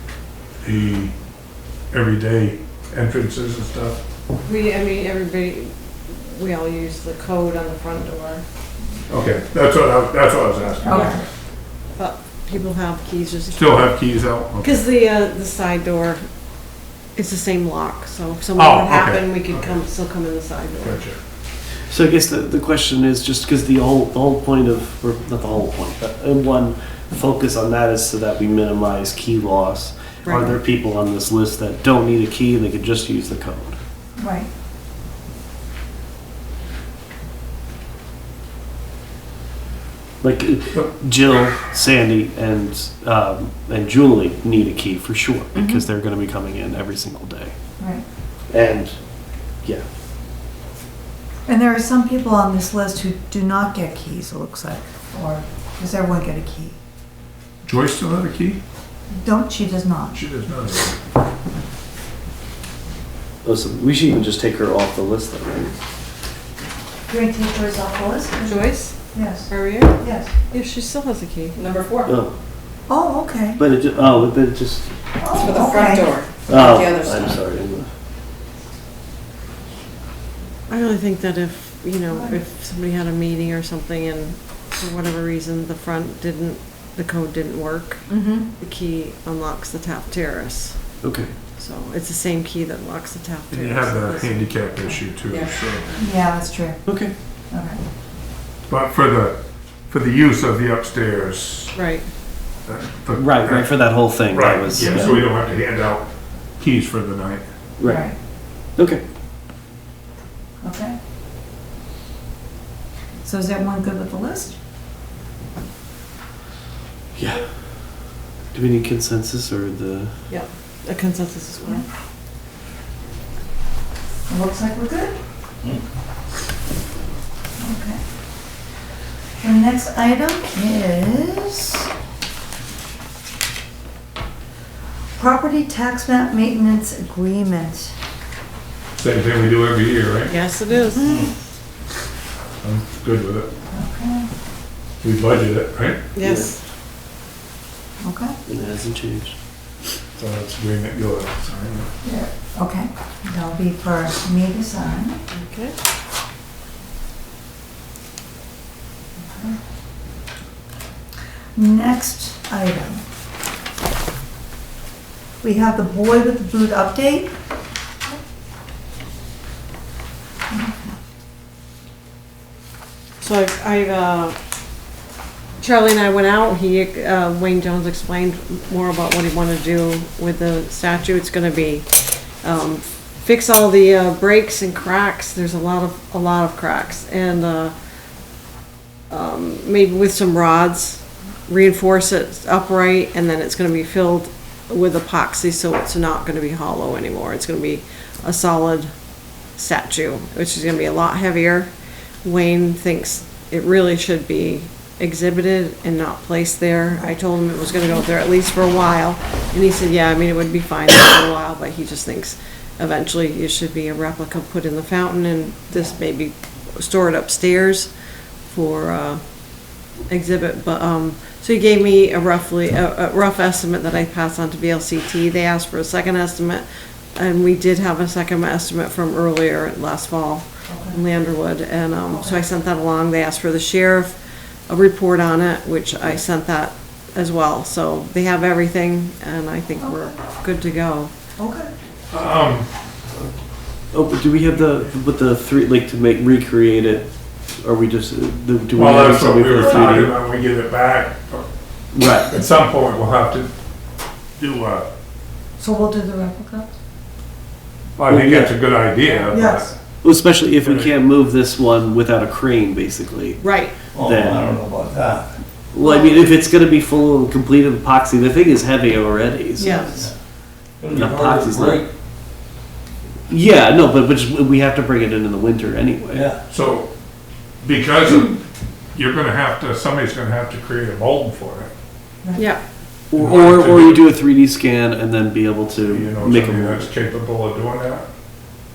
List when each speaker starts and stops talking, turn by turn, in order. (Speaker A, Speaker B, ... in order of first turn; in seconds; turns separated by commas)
Speaker A: 0.6-1.1, Speaker A: 1.9-4.0, Speaker B: 4.4-8.4, Speaker A: 9.1-11.2, Speaker C: 10.8-11.2, Speaker B: 10.8-11.2, Speaker B: 11.9-14.0, Speaker A: 13.5-14.8, Speaker B: 14.6-16.2, Speaker B: 17.1-21.0, Speaker A: 18.6-19.8, Speaker A: 20.8-21.2, Speaker D: 21.9-33.8, Speaker B: 30.2-30.5, Speaker C: 34.1-34.5, Speaker D: 40.2-47.5, Speaker C: 47.8-48.0, Speaker D: 48.5-49.0, Speaker C: 51.5-56.8, Speaker A: 57.6-58.6, Speaker C: 59.1-60.2, Speaker A: 60.1-61.0, Speaker D: 63.4-65.7, Speaker C: 67.1-70.3, Speaker B: 68.4-68.9, Speaker B: 69.5-70.0, Speaker B: 70.5-71.6, Speaker E: 71.5-72.1, Speaker D: 72.0-72.3, Speaker C: 72.9-73.6, Speaker D: 73.6-74.9, Speaker C: 75.2-76.2, Speaker E: 75.4-77.3, Speaker D: 76.4-77.9, Speaker B: 80.7-90.9, Speaker C: 82.1-82.4, Speaker C: 88.1-88.5, Speaker D: 91.0-91.3, Speaker B: 91.4-95.0, Speaker A: 93.5-96.0, Speaker C: 96.0-96.8, Speaker D: 96.8-97.1, Speaker C: 97.5-97.8, Speaker A: 98.7-101.8, Speaker B: 101.7-102.0, Speaker A: 102.6-106.1, Speaker D: 103.2-105.2, Speaker A: 106.6-107.4, Speaker D: 107.8-108.1, Speaker C: 107.8-108.1, Speaker D: 108.8-109.0, Speaker C: 110.6-111.0, Speaker C: 113.2-114.6, Speaker D: 117.1-117.6, Speaker D: 118.5-120.2, Speaker B: 120.3-121.8, Speaker C: 124.3-125.2, Speaker C: 127.6-128.0, Speaker C: 129.4-131.9, Speaker C: 135.2-137.9, Speaker A: 138.9-140.3, Speaker B: 140.2-141.2, Speaker C: 140.7-141.3, Speaker F: 141.0-141.3, Speaker A: 142.6-143.5, Speaker C: 143.7-144.3, Speaker A: 145.0-146.0, Speaker B: 146.1-146.6, Speaker D: 146.2-146.5, Speaker C: 148.0-148.3, Speaker D: 148.4-149.3, Speaker A: 150.2-151.9, Speaker C: 152.0-155.2, Speaker B: 155.3-155.7, Speaker C: 159.2-159.6, Speaker C: 161.5-163.0, Speaker C: 165.4-167.3, Speaker C: 170.5-170.9, Speaker B: 173.2-174.3, Speaker B: 175.6-181.9, Speaker B: 182.4-187.7, Speaker B: 189.1-198.9, Speaker B: 199.6-201.7, Speaker B: 202.2-217.9, Speaker B: 218.4-219.2, Speaker B: 220.1-241.1, Speaker C: 230.7-231.0, Speaker C: 232.1-232.4, Speaker C: 239.8-240.1, Speaker C: 241.4-241.7, Speaker A: 242.1-242.7, Speaker D: 243.9-247.1, Speaker D: 247.6-250.2, Speaker A: 248.7-251.5, Speaker C: 249.6-250.0, Speaker D: 251.9-252.3, Speaker A: 252.2-253.5, Speaker A: 254.4-254.9, Speaker C: 255.6-256.7, Speaker A: 258.0-259.7, Speaker D: 258.1-258.5, Speaker C: 259.3-259.7, Speaker D: 260.0-263.4, Speaker A: 260.6-260.9, Speaker B: 263.4-263.7, Speaker F: 263.9-265.3, Speaker D: 264.0-264.6, Speaker D: 265.7-269.9, Speaker C: 265.8-266.2, Speaker B: 269.6-270.0, Speaker F: 269.6-270.1, Speaker F: 270.8-271.9, Speaker D: 270.9-271.8, Speaker D: 273.3-276.3, Speaker F: 276.1-276.4, Speaker A: 276.5-276.9, Speaker A: 277.6-278.4, Speaker A: 278.9-281.7, Speaker B: 282.3-282.6, Speaker D: 283.1-286.9, Speaker A: 283.1-284.1, Speaker A: 285.8-288.1